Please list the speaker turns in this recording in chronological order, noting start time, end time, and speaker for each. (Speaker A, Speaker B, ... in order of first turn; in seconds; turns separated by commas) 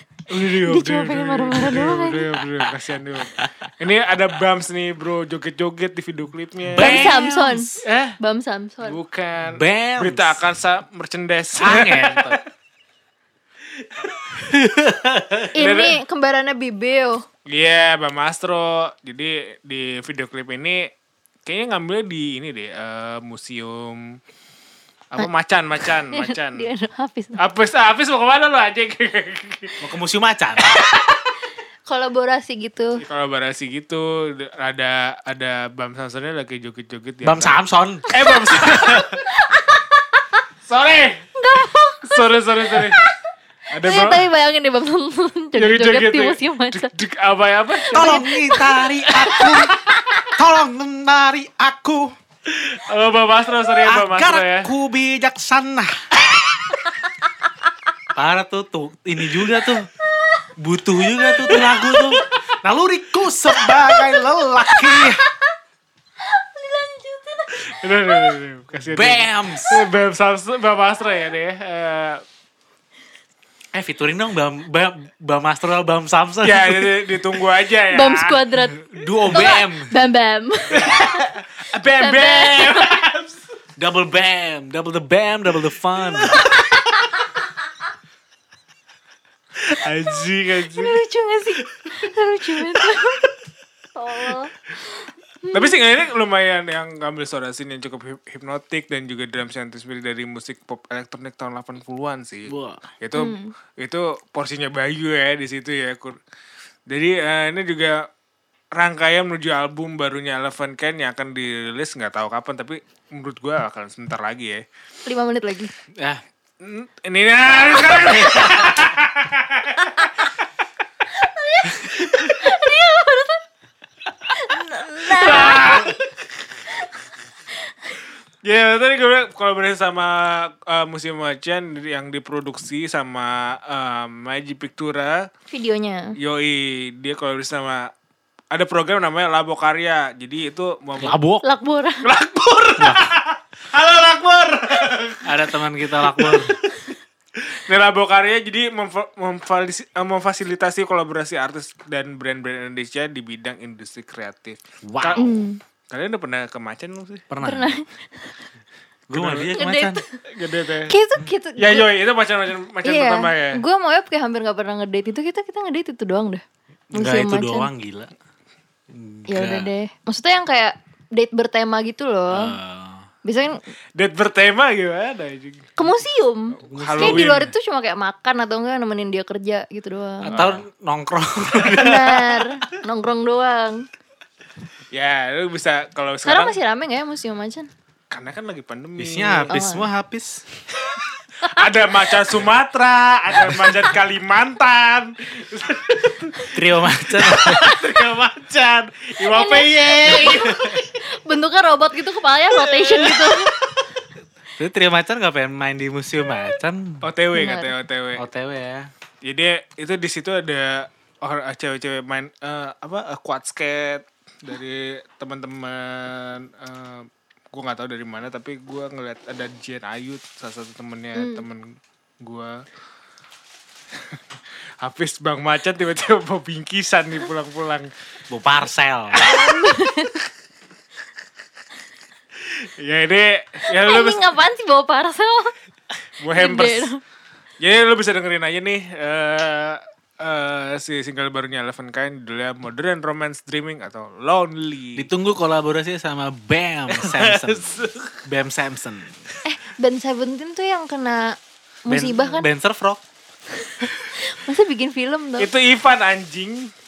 Speaker A: 0.3-7.1, Speaker B: 0.6-2.3, Speaker C: 3.3-3.7, Speaker C: 6.7-7.9, Speaker B: 6.8-9.0, Speaker A: 7.8-8.1, Speaker A: 8.8-12.4, Speaker C: 9.4-10.4, Speaker C: 11.6-12.4, Speaker C: 14.0-15.6, Speaker B: 15.5-17.2, Speaker A: 15.6-16.0, Speaker A: 17.4-20.9, Speaker A: 21.4-24.2, Speaker A: 25.1-26.7, Speaker B: 26.1-27.4, Speaker A: 27.4-29.8, Speaker C: 29.8-30.8, Speaker B: 31.9-33.0, Speaker A: 33.0-39.2, Speaker C: 37.2-38.0, Speaker B: 38.2-40.4, Speaker A: 40.6-41.2, Speaker B: 41.4-43.1, Speaker A: 42.0-43.0, Speaker A: 43.7-44.3, Speaker B: 43.8-46.9, Speaker A: 45.6-48.3, Speaker B: 47.8-49.5, Speaker C: 47.9-49.8, Speaker A: 49.0-49.7, Speaker C: 50.3-52.1, Speaker A: 52.5-54.7, Speaker C: 53.8-56.1, Speaker C: 58.1-59.9, Speaker C: 60.6-65.2, Speaker B: 61.4-62.2, Speaker B: 63.5-65.5, Speaker B: 66.2-68.3, Speaker A: 67.5-72.2, Speaker C: 68.8-69.8, Speaker C: 73.7-77.1, Speaker A: 76.4-78.4, Speaker B: 77.9-81.2, Speaker C: 78.8-79.9, Speaker A: 80.7-83.4, Speaker B: 82.0-83.0, Speaker C: 83.8-86.4, Speaker B: 86.5-87.1, Speaker A: 89.6-91.0, Speaker B: 90.6-93.3, Speaker B: 93.9-94.5, Speaker B: 95.4-95.8, Speaker A: 95.5-106.2, Speaker C: 102.5-102.9, Speaker B: 103.1-103.5, Speaker A: 106.9-108.1, Speaker A: 108.7-114.6, Speaker B: 115.0-115.7, Speaker C: 116.0-116.2, Speaker A: 116.6-120.3, Speaker C: 118.2-118.7, Speaker B: 121.1-123.4, Speaker B: 124.3-126.0, Speaker A: 125.1-126.0, Speaker A: 128.4-135.3, Speaker B: 135.5-136.2, Speaker A: 136.2-137.9, Speaker A: 138.5-141.2, Speaker C: 141.0-141.4, Speaker B: 141.4-142.1, Speaker A: 142.0-145.4, Speaker C: 142.8-143.1, Speaker C: 145.2-146.5, Speaker A: 146.0-146.6, Speaker A: 147.4-155.3, Speaker C: 154.8-155.2, Speaker B: 155.2-155.6, Speaker A: 155.9-157.2, Speaker C: 157.3-157.7, Speaker B: 157.4-158.3, Speaker C: 159.1-160.0, Speaker A: 159.1-159.6, Speaker B: 159.5-160.2, Speaker A: 160.3-160.9, Speaker B: 160.9-161.9, Speaker A: 161.6-163.6, Speaker B: 162.8-167.7, Speaker C: 166.9-168.1, Speaker C: 168.9-169.7, Speaker B: 169.3-172.6, Speaker C: 172.3-173.1, Speaker B: 173.2-173.6, Speaker A: 173.9-175.7, Speaker B: 175.8-180.4, Speaker C: 176.6-177.4, Speaker A: 176.7-177.5, Speaker C: 180.2-182.4, Speaker A: 180.3-180.6, Speaker B: 181.7-183.9, Speaker A: 184.9-186.6, Speaker B: 186.2-187.7, Speaker A: 188.1-189.6, Speaker C: 189.0-190.4, Speaker B: 189.5-189.9, Speaker B: 191.4-191.7, Speaker A: 191.4-200.8, Speaker C: 196.5-197.8, Speaker B: 199.2-203.5, Speaker C: 200.1-200.4, Speaker A: 202.6-203.8, Speaker C: 204.6-207.0, Speaker A: 207.0-208.2, Speaker B: 207.3-207.7, Speaker C: 208.2-208.9, Speaker A: 209.2-222.6, Speaker B: 221.1-221.4, Speaker A: 224.8-227.9, Speaker C: 228.3-229.3, Speaker A: 229.2-229.8, Speaker B: 229.2-230.1, Speaker A: 232.4-234.3, Speaker B: 233.7-235.5, Speaker A: 236.2-236.9, Speaker B: 236.3-237.0, Speaker A: 237.6-245.1, Speaker C: 244.9-249.2, Speaker A: 246.9-248.2, Speaker B: 249.4-252.5, Speaker C: 251.9-253.0, Speaker B: 253.6-255.5, Speaker A: 255.4-256.7